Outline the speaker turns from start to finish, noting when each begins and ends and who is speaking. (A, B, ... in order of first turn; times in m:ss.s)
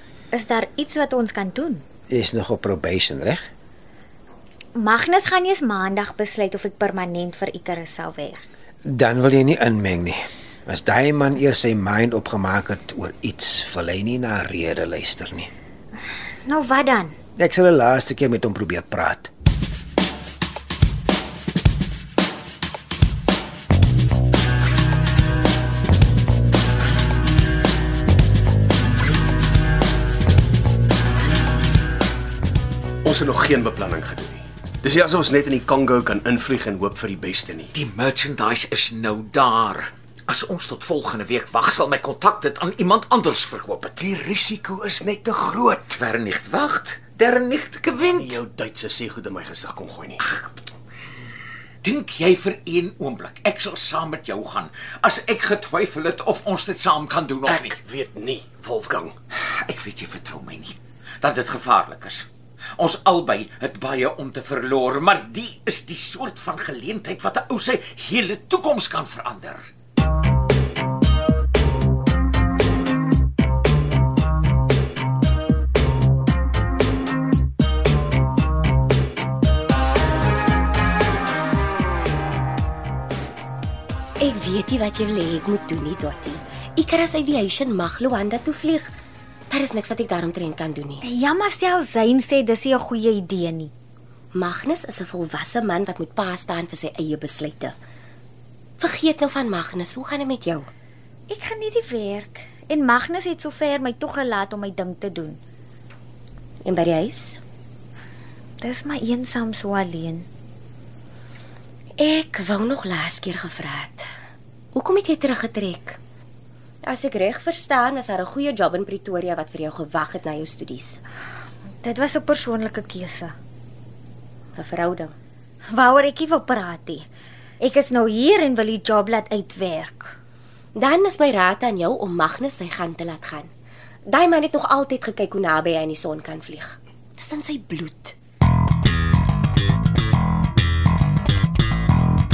0:00.3-0:01.8 A
0:02.1-0:03.4 B
0:04.8-0:08.4 A
0:08.8-0:15.5 B
0:16.4-0:17.1 A
0:17.4-0:19.3 B
0:33.0-0:37.7 C
0:37.7-0:44.0 D
0:44.0-0:46.0 C
0:45.9-0:48.4 D
0:48.0-0:50.2 C
0:50.2-0:50.6 D
0:51.8-0:57.8 D
0:57.4-0:59.1 C
0:59.3-1:02.3 D
1:02.8-1:09.7 D
1:24.2-1:28.9 E
1:29.5-1:31.0 E
1:31.0-1:33.7 A
1:34.3-1:37.7 E
1:38.8-1:40.7 E
1:41.3-1:45.4 A
1:46.6-1:47.4 E
1:48.6-1:50.3 A
1:52.0-1:54.1 E
1:54.7-1:56.0 E
1:56.8-2:01.0 E
2:01.8-2:03.3 A
2:04.6-2:05.1 E
2:05.7-2:07.0 A
2:07.6-2:10.1 A
2:10.8-2:13.5 E
2:14.1-2:18.1 E